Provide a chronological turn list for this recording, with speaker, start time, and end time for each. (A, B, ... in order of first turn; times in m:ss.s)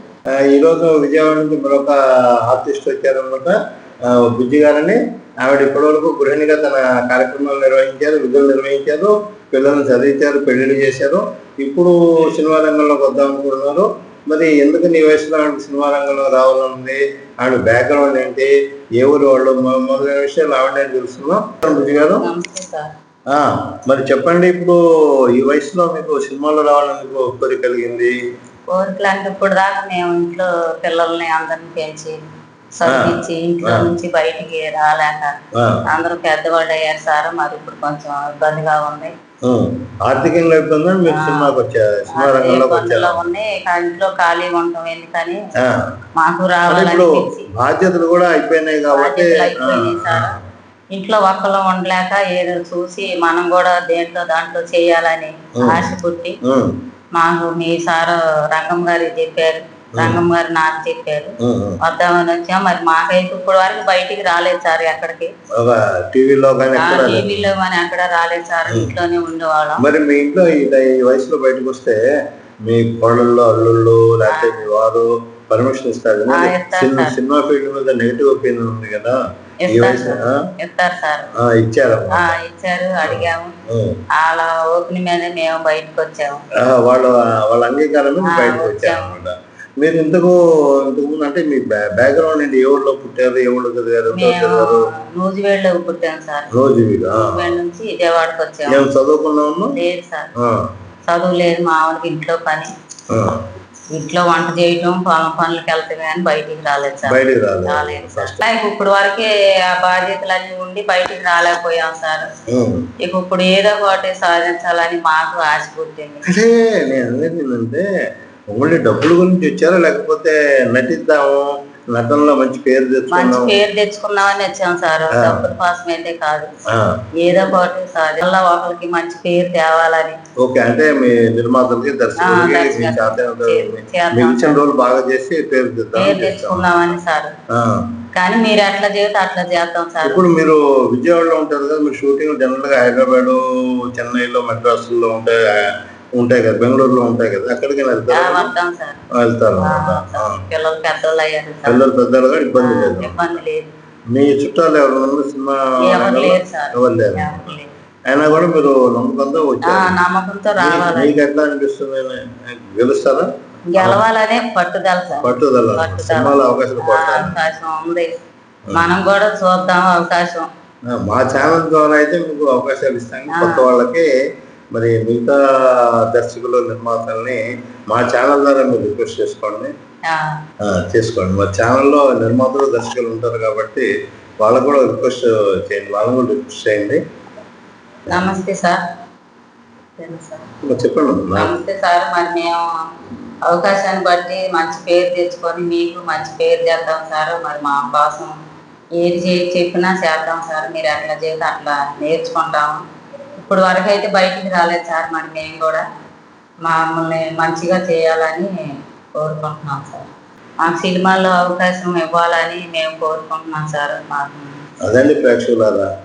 0:00.4-0:22.3 A
0:22.2-0:22.9 B
0:23.3-0:24.8 A
0:25.4-0:28.1 A
0:28.7-0:32.2 B
0:32.8-0:39.1 B
0:32.9-0:33.9 A
0:39.4-0:43.2 A
0:41.1-0:41.5 B
0:42.2-0:45.4 B
0:46.2-0:47.5 B
0:46.7-0:50.4 A
0:48.9-0:50.4 B
0:50.9-0:56.4 B
0:55.6-0:55.9 A
0:56.4-0:56.7 A
0:57.2-1:05.3 B
1:00.0-1:00.2 A
1:01.4-1:01.8 A
1:05.6-1:07.5 A
1:06.8-1:09.8 B
1:08.7-1:08.9 A
1:09.8-1:12.0 A
1:12.7-1:19.2 A
1:14.3-1:14.6 B
1:16.3-1:17.2 B
1:19.6-1:21.3 B
1:19.7-1:20.4 A
1:21.4-1:22.3 A
1:22.1-1:23.5 B
1:23.1-1:24.0 A
1:24.2-1:26.4 B
1:26.6-1:34.8 A
1:28.2-1:29.1 B
1:34.1-1:36.5 B
1:36.5-1:37.4 A
1:37.1-1:38.8 B
1:38.7-1:39.8 A
1:39.7-1:40.3 B
1:41.1-1:42.7 B
1:43.1-1:43.4 A
1:43.9-1:52.3 B
1:47.1-1:48.4 A
1:52.5-1:52.8 A
1:53.0-1:56.2 B
1:56.3-1:57.8 A
1:58.5-2:03.5 A
2:03.1-2:06.5 B
2:05.2-2:05.4 A
2:06.7-2:07.0 A
2:07.2-2:10.2 B
2:10.4-2:17.0 A
2:12.2-2:14.6 B
2:16.0-2:17.4 B
2:17.5-2:17.8 A
2:18.1-2:20.2 B
2:20.0-2:23.4 A
2:23.9-2:25.5 A
2:26.2-2:28.5 A
2:28.1-2:29.0 B
2:29.2-2:30.4 A
2:29.6-2:31.8 B
2:31.7-2:33.4 A
2:32.6-2:33.7 B
2:34.1-2:37.5 A
2:35.8-2:37.7 B
2:38.1-2:40.0 A
2:39.6-2:41.1 B
2:40.6-2:44.0 A
2:43.7-2:48.1 B
2:45.2-2:47.4 A
2:48.7-2:50.5 B
2:50.9-2:54.1 A
2:53.3-2:53.7 B
2:54.7-2:59.7 A
3:00.6-3:03.9 A
3:04.4-3:07.0 A
3:08.1-3:08.8 B
3:10.0-3:10.5 B
3:10.7-3:11.5 A
3:11.4-3:12.6 B
3:13.5-3:18.4 B
3:19.0-3:22.8 B
3:23.4-3:25.8 B
3:26.6-3:28.5 B
3:29.2-3:30.1 B
3:30.6-3:34.6 B
3:34.8-3:35.9 A